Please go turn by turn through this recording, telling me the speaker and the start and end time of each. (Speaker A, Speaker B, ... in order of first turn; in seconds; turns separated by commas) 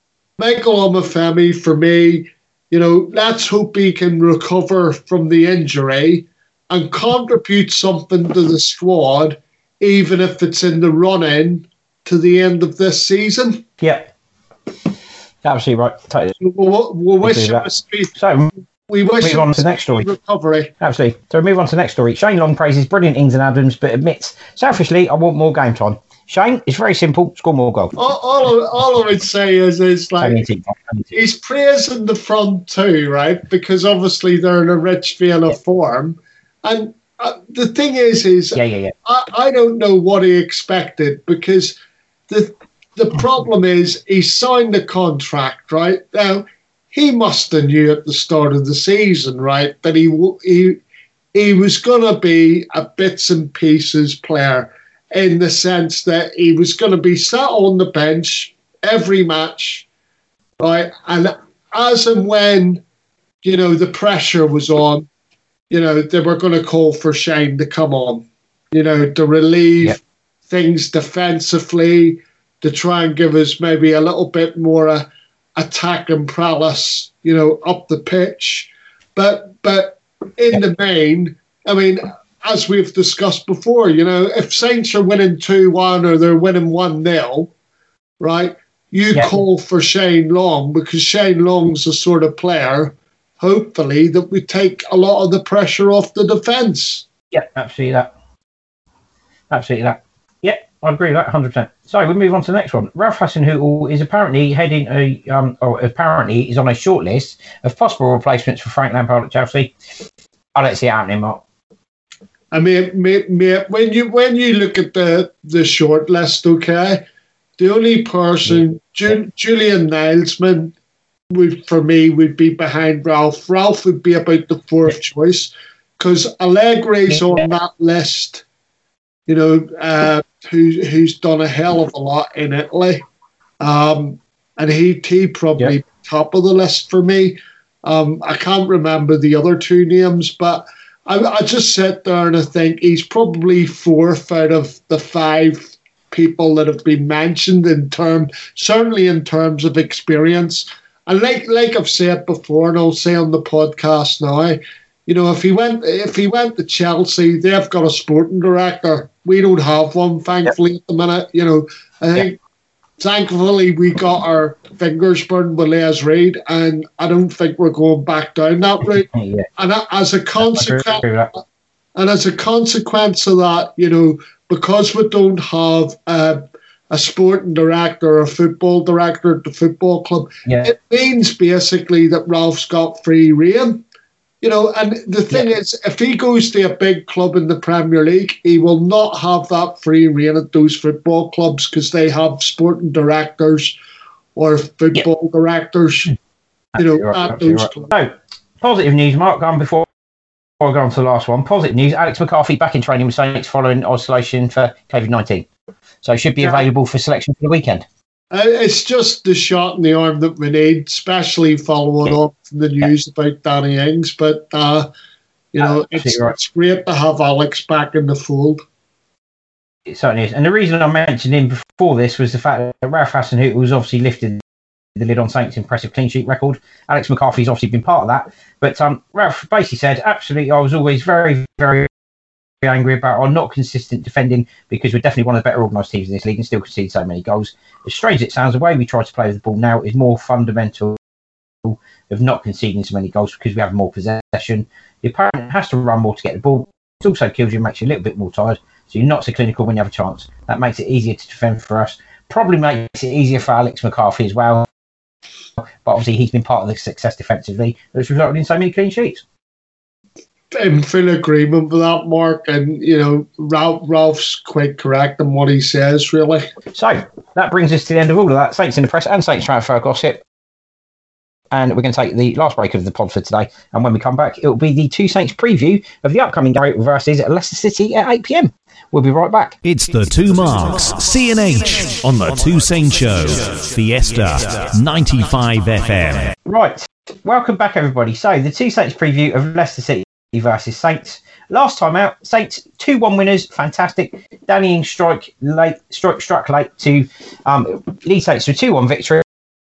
Speaker A: 0.4-13.6, Speaker B: 13.8-14.1, Speaker B: 15.4-16.4, Speaker A: 16.4-18.1, Speaker B: 17.2-18.5, Speaker A: 18.8-20.7, Speaker B: 19.2-20.1, Speaker B: 20.8-27.9, Speaker A: 27.9-30.4, Speaker B: 30.2-31.2, Speaker A: 31.1-41.8, Speaker B: 38.5-38.9, Speaker A: 42.3-50.8, Speaker A: 51.3-59.9, Speaker A: 60.6-62.8, Speaker A: 63.4-65.1, Speaker A: 65.7-87.5, Speaker A: 88.2-97.0, Speaker B: 97.3-98.1, Speaker B: 99.5-109.7, Speaker B: 110.5-111.4, Speaker A: 112.5-117.0, Speaker A: 117.6-120.7, Speaker A: 121.3-128.4, Speaker A: 129.3-133.0, Speaker A: 133.6-162.4, Speaker A: 163.0-171.0, Speaker B: 169.1-169.5, Speaker B: 170.4-171.3, Speaker A: 171.9-183.8, Speaker B: 180.4-180.7, Speaker A: 184.4-193.7, Speaker A: 194.3-196.1, Speaker B: 196.7-199.9, Speaker A: 196.8-197.9, Speaker B: 200.6-205.5, Speaker B: 206.0-207.8, Speaker A: 208.3-214.9, Speaker A: 215.5-218.6, Speaker B: 215.6-216.3, Speaker B: 219.9-224.4, Speaker B: 224.9-231.9, Speaker B: 232.6-241.0, Speaker B: 241.6-254.7, Speaker B: 255.8-259.2, Speaker A: 260.5-266.4, Speaker B: 266.7-270.2, Speaker B: 271.5-279.6, Speaker C: 279.6-286.3, Speaker B: 286.4-299.2